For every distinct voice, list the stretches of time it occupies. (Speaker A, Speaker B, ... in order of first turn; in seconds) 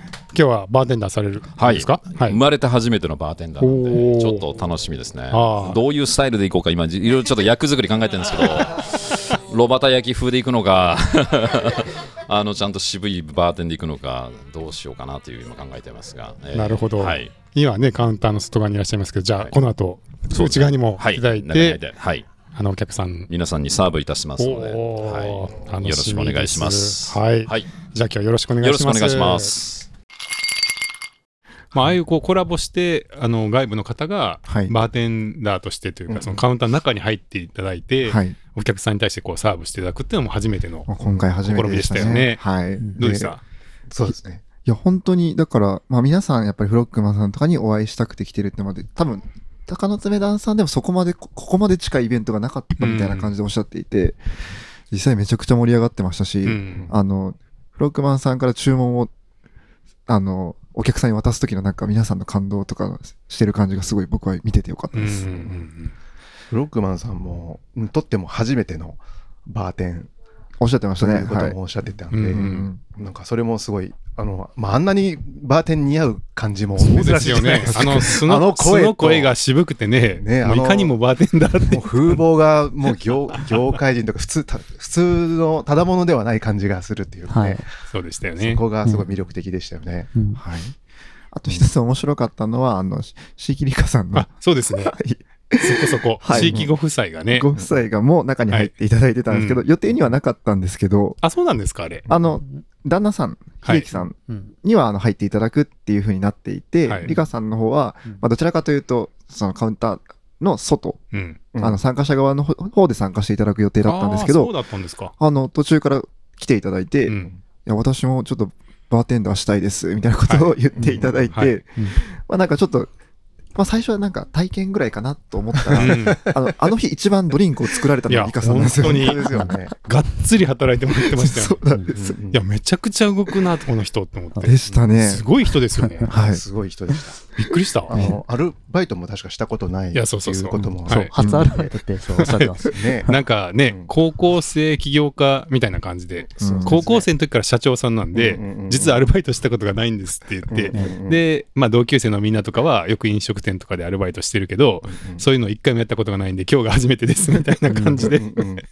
Speaker A: 0.3-2.4, 3.6-4.4, 5.3-5.8, 16.5-21.8, 22.5-23.3, 24.4-29.5, 31.7-40.9, 41.4-42.4, 43.0-43.4, 52.8-53.3, 56.4-56.9, 64.9-65.9, 72.1-72.7, 76.8-82.2, 87.9-88.6, 94.1-95.0, 95.6-97.5, 99.3-99.6, 101.2-102.0, 111.1-111.4, 113.8-115.1, 120.3-120.5, 125.8-126.2, 128.1-129.3, 129.8-131.6, 132.3-136.1, 137.4-137.9, 139.9-141.1, 142.2-142.5, 143.1-158.3
Speaker B: 1.6-17.3, 20.3-22.3, 23.3-27.7, 28.6-29.9
Speaker C: 34.5-34.7, 38.0-38.4, 40.9-42.9, 44.6-54.2, 54.9-59.1, 60.1-65.5, 70.6-71.6, 72.3-72.8, 90.3-90.8, 91.3-96.7, 97.3-101.2, 102.1-111.0, 111.6-114.5, 115.2-122.9, 123.5-129.6, 131.0-132.2, 134.4-135.3, 136.1-136.4, 141.2-141.6, 146.4-146.8
Speaker D: 36.1-36.4, 41.8-42.2, 43.0-43.3, 43.9-44.4, 66.5-70.1, 71.0-79.3, 80.2-80.9, 81.6-87.7, 88.4-90.1, 96.3-96.7, 120.8-121.3, 125.8-126.2, 128.6-129.7, 131.9-132.4, 136.1-137.2, 137.9-141.1, 142.6-143.1, 146.4-147.1, 148.1-149.0, 150.5-151.2, 154.9-155.2, 158.0-158.6
Speaker E: 87.3-87.6, 90.1-90.4, 137.9-138.2, 140.8-142.8, 157.7-158.1